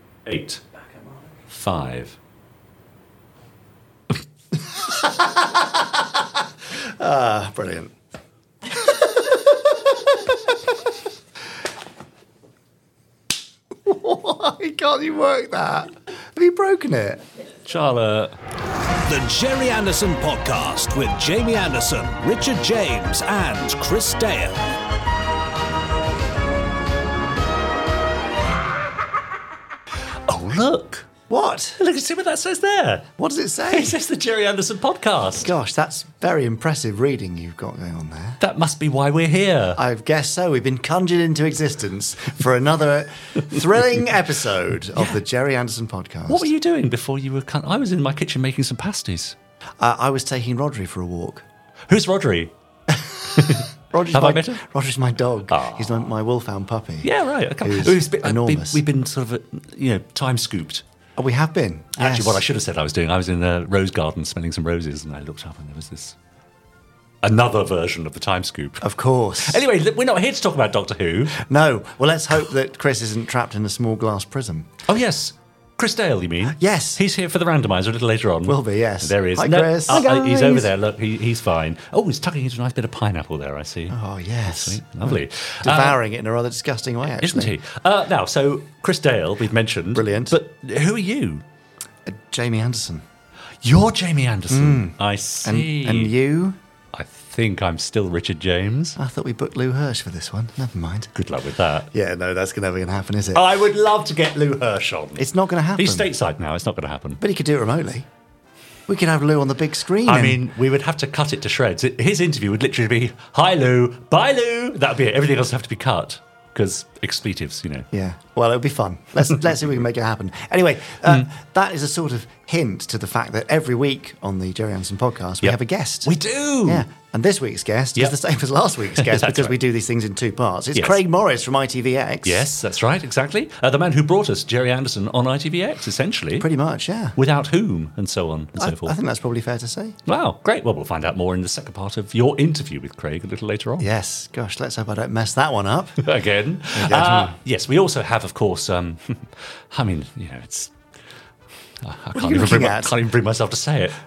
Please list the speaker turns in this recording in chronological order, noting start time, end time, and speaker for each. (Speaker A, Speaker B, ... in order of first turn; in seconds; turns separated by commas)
Speaker A: 0.3-0.6, Speaker A: 1.5-2.2, Speaker B: 4.8-6.2, Speaker B: 6.8-7.9, Speaker B: 8.8-10.4, Speaker B: 13.8-17.2, Speaker A: 17.6-18.3, Speaker C: 19.1-24.7, Speaker A: 19.1-23.5, Speaker A: 30.3-31.1, Speaker B: 31.3-31.8, Speaker A: 31.8-33.1, Speaker B: 33.2-34.0, Speaker A: 33.7-35.5, Speaker B: 35.4-38.4, Speaker A: 38.4-39.8, Speaker B: 39.8-46.5, Speaker A: 46.3-49.4, Speaker B: 49.8-51.5, Speaker A: 51.9-52.5, Speaker B: 52.9-58.8, Speaker A: 53.3-54.6, Speaker A: 55.5-56.0, Speaker A: 57.0-60.8, Speaker B: 61.2-62.5, Speaker A: 62.0-66.2, Speaker A: 67.2-71.4, Speaker B: 68.8-69.6, Speaker B: 71.3-74.7, Speaker A: 74.9-86.0, Speaker B: 76.6-77.0, Speaker B: 78.5-80.7, Speaker B: 83.9-87.5, Speaker A: 87.2-91.4, Speaker B: 89.9-90.4, Speaker B: 92.1-93.0, Speaker A: 93.6-96.2, Speaker B: 94.5-96.6, Speaker A: 96.9-99.0, Speaker B: 99.0-101.1, Speaker A: 101.2-101.9, Speaker B: 101.9-103.5, Speaker A: 103.3-107.2, Speaker B: 105.2-106.1, Speaker B: 107.2-108.1, Speaker B: 108.9-110.4, Speaker A: 110.0-117.9, Speaker B: 117.9-126.1, Speaker A: 125.4-126.8, Speaker B: 126.7-132.5, Speaker A: 129.0-129.6, Speaker A: 130.7-131.0, Speaker A: 132.2-136.5, Speaker B: 136.4-137.2, Speaker A: 137.2-139.0, Speaker B: 138.6-140.0, Speaker A: 140.1-143.9, Speaker B: 143.8-146.1, Speaker A: 146.0-150.7, Speaker B: 146.7-147.3, Speaker A: 151.8-154.0, Speaker B: 152.1-153.0